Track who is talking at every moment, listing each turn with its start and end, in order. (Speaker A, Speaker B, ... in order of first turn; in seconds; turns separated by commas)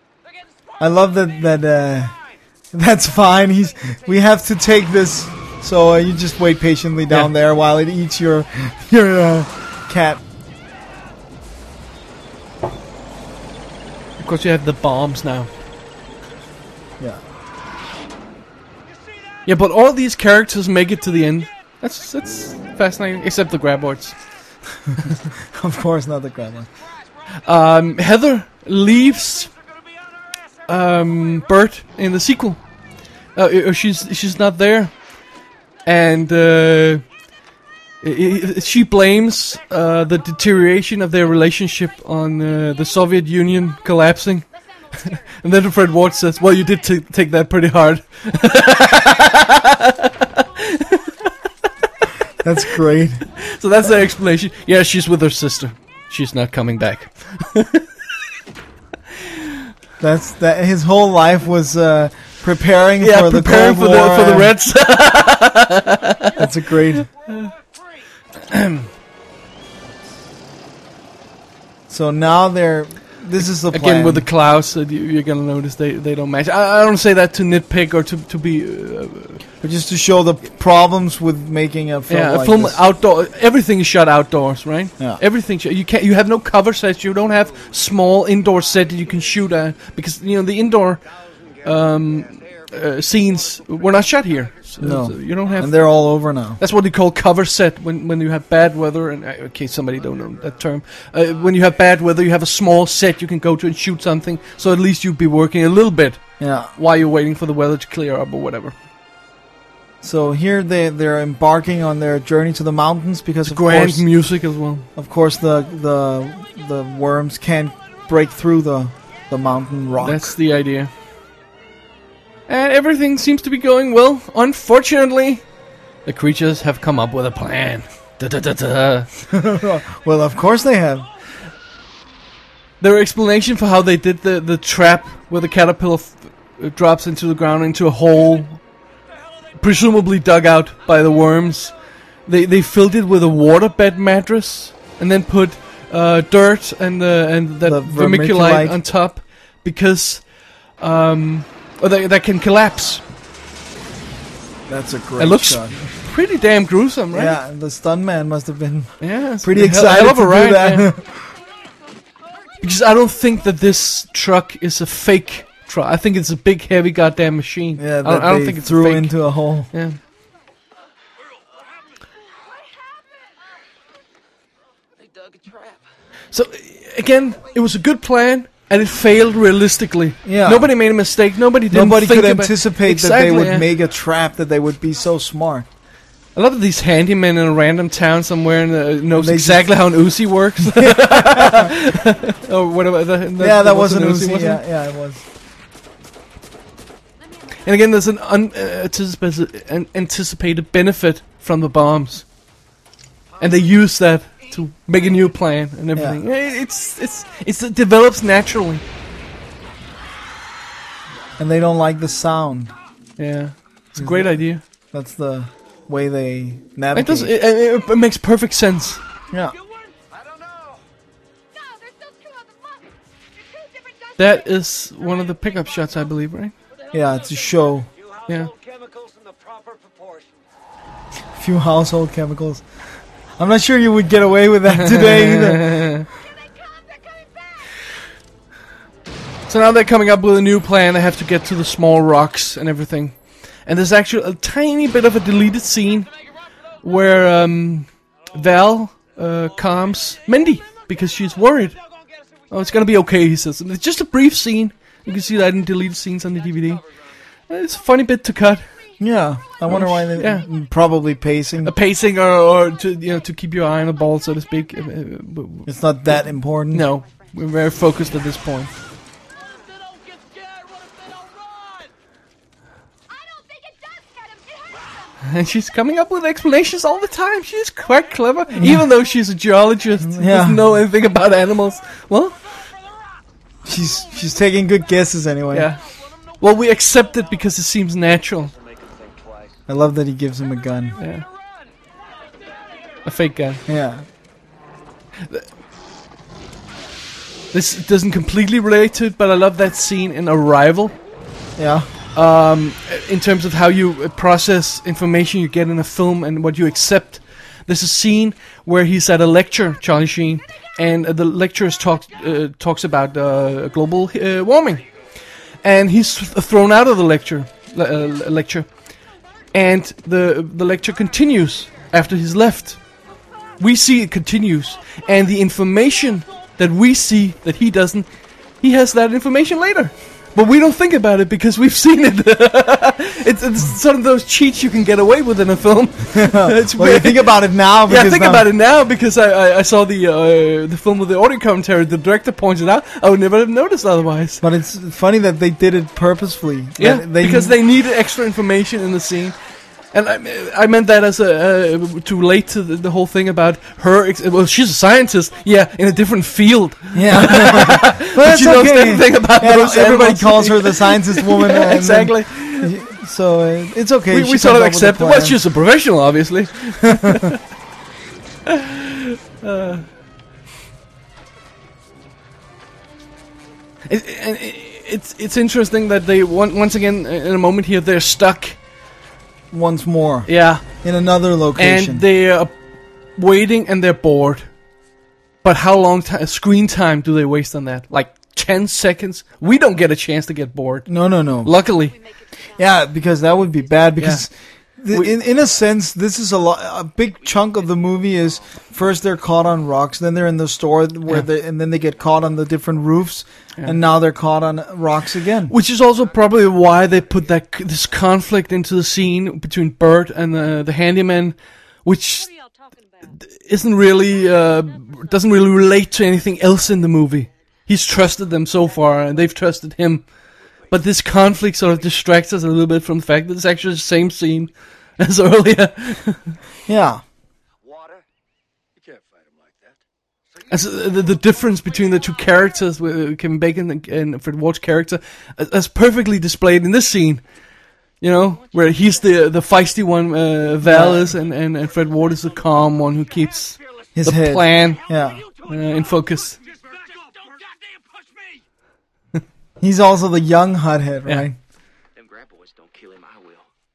Speaker A: 0.8-2.1, Speaker A: 2.7-10.2, Speaker B: 14.2-15.5, Speaker B: 19.5-24.2, Speaker A: 25.4-26.7, Speaker B: 27.4-29.5, Speaker B: 30.7-32.6, Speaker B: 33.4-35.1, Speaker B: 35.9-37.1, Speaker B: 38.0-44.5, Speaker C: 44.9-45.2, Speaker B: 45.1-51.2, Speaker A: 52.4-53.3, Speaker B: 53.3-57.9, Speaker B: 59.2-59.6, Speaker A: 60.0-64.5, Speaker B: 63.0-66.4, Speaker A: 66.4-67.1, Speaker B: 67.3-67.5, Speaker B: 68.5-68.9, Speaker A: 71.9-74.3, Speaker B: 73.7-79.4, Speaker A: 79.6-82.8, Speaker B: 82.1-91.0, Speaker B: 91.6-95.9, Speaker A: 94.8-96.6, Speaker B: 96.6-108.8, Speaker A: 106.4-106.7, Speaker A: 110.0-114.1, Speaker B: 113.5-114.9, Speaker A: 115.0-120.3, Speaker B: 120.0-120.9, Speaker B: 122.5-125.4, Speaker B: 126.1-129.1, Speaker A: 129.3-131.1, Speaker B: 132.8-138.6, Speaker B: 139.6-141.7, Speaker B: 142.3-150.3, Speaker A: 147.6-148.8, Speaker B: 150.8-153.0, Speaker A: 154.7-155.8, Speaker B: 155.2-157.4, Speaker A: 157.1-161.3, Speaker B: 159.0-160.9, Speaker B: 162.6-169.1, Speaker A: 167.8-169.7, Speaker B: 169.7-170.0, Speaker D: 175.0-175.9, Speaker B: 176.3-183.7, Speaker A: 180.2-180.7, Speaker A: 181.7-185.7, Speaker B: 186.3-194.6, Speaker A: 189.2-189.7, Speaker A: 190.7-191.7, Speaker A: 193.4-195.2, Speaker C: 197.2-197.8, Speaker B: 197.6-202.2, Speaker B: 203.4-208.8, Speaker A: 211.4-212.7, Speaker B: 213.2-214.6, Speaker A: 214.0-214.4, Speaker A: 214.9-217.3, Speaker B: 216.9-219.0, Speaker E: 220.1-220.8, Speaker C: 221.5-224.4, Speaker B: 224.2-226.5, Speaker A: 226.9-227.9, Speaker E: 228.0-230.3, Speaker A: 231.3-232.6, Speaker A: 233.4-236.0, Speaker B: 234.7-236.1, Speaker B: 239.5-246.1, Speaker B: 246.8-251.8, Speaker B: 252.5-256.8, Speaker B: 257.5-258.7, Speaker A: 259.0-261.7, Speaker B: 259.7-260.5, Speaker B: 261.6-268.7, Speaker A: 265.7-266.9, Speaker C: 266.9-267.7, Speaker C: 273.1-275.0, Speaker B: 275.2-282.4, Speaker A: 278.5-278.8, Speaker A: 280.0-280.6, Speaker A: 283.6-285.7, Speaker B: 285.5-285.8, Speaker B: 286.4-288.5, Speaker E: 288.5-289.5, Speaker A: 289.7-291.0, Speaker B: 291.0-291.3, Speaker B: 293.1-293.6, Speaker A: 293.7-294.1, Speaker B: 297.5-300.9, Speaker A: 301.6-301.9, Speaker B: 302.1-314.9, Speaker B: 315.6-318.7, Speaker B: 319.5-322.8, Speaker B: 323.6-328.1, Speaker B: 328.6-344.4, Speaker A: 336.1-338.5, Speaker A: 344.4-347.6, Speaker B: 346.8-349.4, Speaker B: 349.9-362.7, Speaker A: 356.9-365.4, Speaker B: 364.1-367.4, Speaker A: 366.9-367.3, Speaker B: 368.5-369.9, Speaker B: 373.9-378.6, Speaker A: 379.5-382.0, Speaker B: 380.3-380.7, Speaker B: 381.6-382.5, Speaker B: 383.2-384.5, Speaker B: 385.4-391.9, Speaker A: 390.9-391.5, Speaker C: 391.7-393.9, Speaker A: 392.6-405.5, Speaker B: 394.0-394.3, Speaker D: 395.2-395.6, Speaker D: 397.2-398.7, Speaker B: 405.5-412.3, Speaker C: 412.2-415.6, Speaker B: 413.3-420.1, Speaker B: 420.7-426.4, Speaker A: 426.7-427.0, Speaker E: 427.7-428.0, Speaker E: 428.8-429.8, Speaker B: 430.5-437.2, Speaker B: 438.0-444.9, Speaker C: 438.7-439.2, Speaker A: 440.6-441.1, Speaker A: 443.9-445.3, Speaker B: 445.4-446.4, Speaker E: 446.5-447.5, Speaker A: 449.6-451.4, Speaker D: 451.9-453.5